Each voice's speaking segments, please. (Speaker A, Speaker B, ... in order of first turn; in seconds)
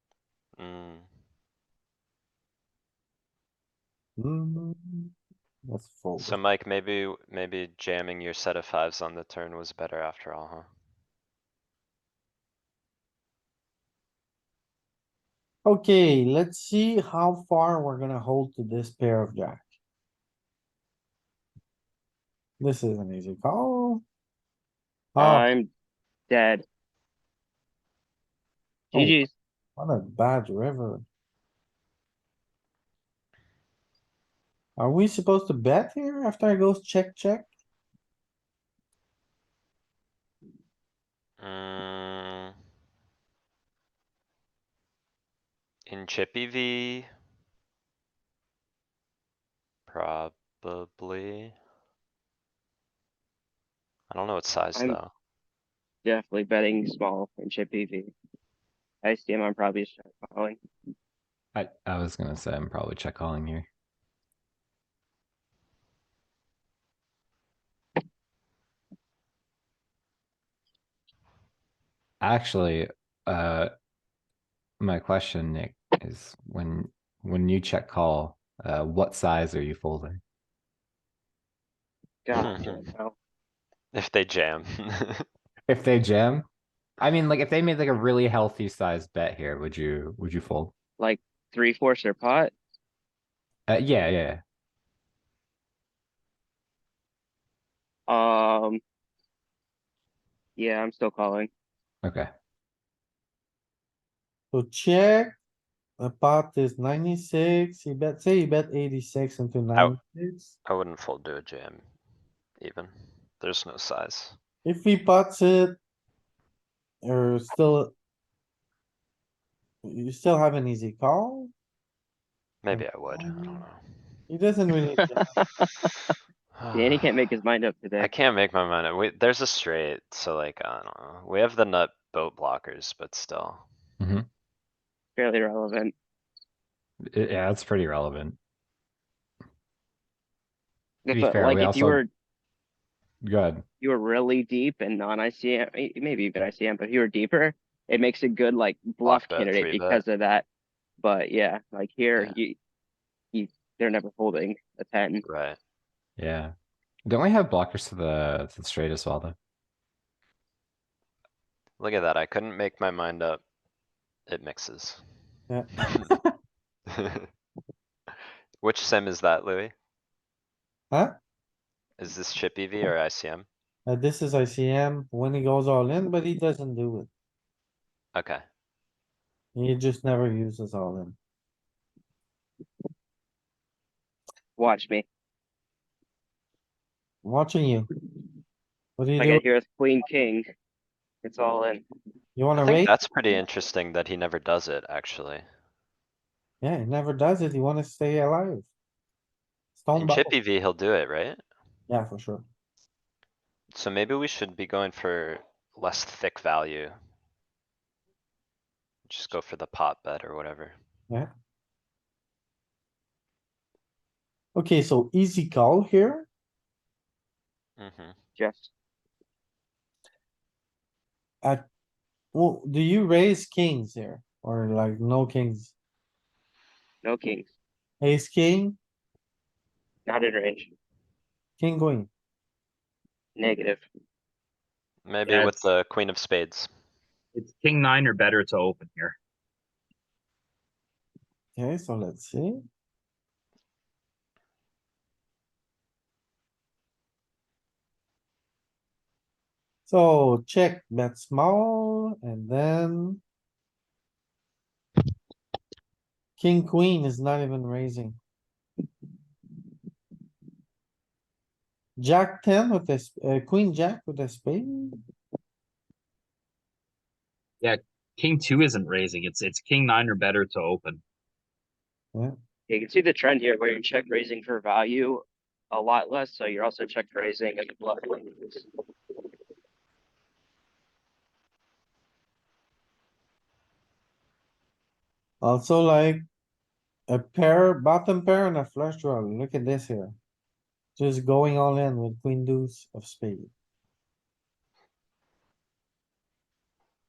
Speaker A: 0.6-1.1, 6.2-10.7, 41.4-42.5, 45.9-47.1, 49.9-51.5, 54.1-55.1, 82.3-82.9, 83.9-85.3, 110.7-111.8, 112.6-114.4, 122.6-123.8, 125.4-125.7, 126.6-127.0, 128.0-133.7, 149.0-150.0, 155.2-155.6, 161.8-163.4, 164.3-165.0, 167.0-167.3, 168.1-169.7, 172.0-173.5, 178.2-178.4, 192.6-195.4, 200.0-201.4, 203.7-206.9, 209.1-210.8, 217.8-218.2, 235.1-236.7
Speaker B: 4.2-5.1, 5.7-6.4, 15.7-19.7, 22.6-24.0, 25.1-25.5, 28.9-29.2, 29.8-31.0, 34.8-37.5, 104.5-105.4, 106.0-110.5, 114.7-115.8, 117.0-117.9, 119.8-121.5, 122.7-123.6, 124.3-125.3, 173.9-177.1, 179.6-181.2, 187.2-187.9, 189.0-189.4, 192.4-192.9, 196.6-198.7, 199.8-200.3, 201.9-202.4, 214.6-216.3, 222.3-225.7, 228.0-228.8, 231.6-232.1, 241.6-242.6, 249.9-253.2, 256.4-258.2, 262.0-265.0, 285.4-286.2, 287.1-290.2, 291.0-293.5
Speaker C: 25.2-25.7, 26.3-26.6, 28.9-29.3, 56.0-58.1, 59.0-60.6, 82.2-83.2, 91.0-92.5, 98.1-98.8, 100.6-101.5, 126.7-128.1, 135.2-135.9, 141.1-142.1, 143.8-150.5, 151.0-152.6, 153.3-155.2, 184.6-185.1, 189.2-190.4, 191.2-191.8, 218.4-218.7, 227.0-227.5, 230.1-230.7, 233.4-233.8, 235.3-235.6, 272.7-278.7
Speaker D: 61.5-63.7, 72.2-73.7, 74.8-80.2, 85.7-86.5, 87.0-90.7, 93.7-94.4, 102.0-102.3, 134.0-134.3, 137.1-138.4, 141.1-142.0, 143.2-143.6, 156.2-156.5, 157.1-159.4
Speaker E: 237.3-239.2, 267.6-271.0